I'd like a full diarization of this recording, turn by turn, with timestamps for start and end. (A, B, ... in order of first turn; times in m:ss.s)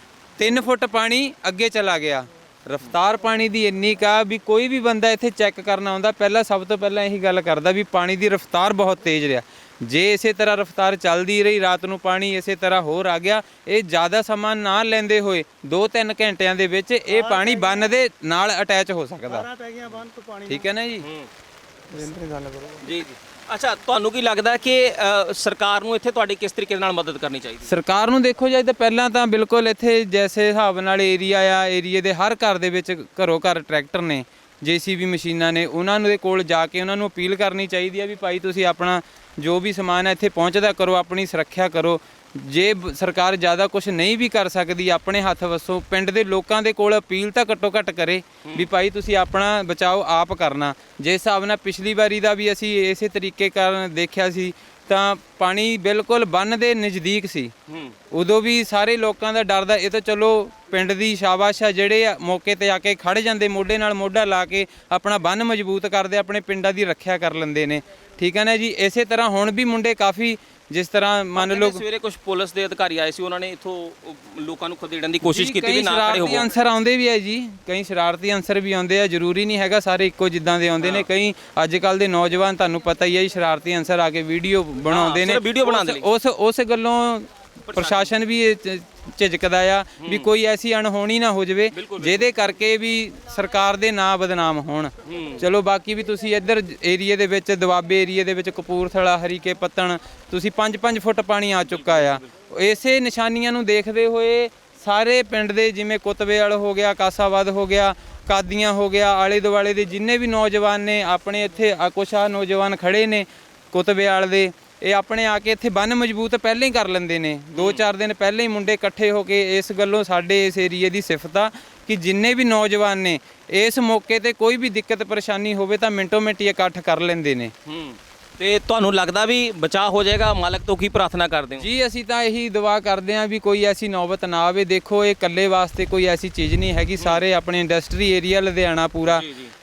0:00.4-0:19.5 A
0:17.1-0:17.8 B
0:19.3-0:20.6 B
0:20.5-0:21.0 A
0:21.0-0:21.3 C
0:21.9-0:22.8 B
0:22.8-0:27.7 C
0:27.7-0:57.5 A
0:48.4-0:48.7 C
0:57.7-0:58.0 C
0:58.1-1:11.8 A
1:11.4-1:16.5 C
1:15.2-2:07.5 A
1:20.8-1:21.1 C
1:24.9-1:26.1 C
1:27.7-1:28.1 C
1:30.0-1:30.3 C
1:31.7-1:32.3 C
1:35.0-1:35.4 C
1:41.6-1:42.2 C
1:57.5-1:57.8 C
2:07.6-2:11.7 C
2:11.6-2:19.2 A
2:19.0-2:19.5 C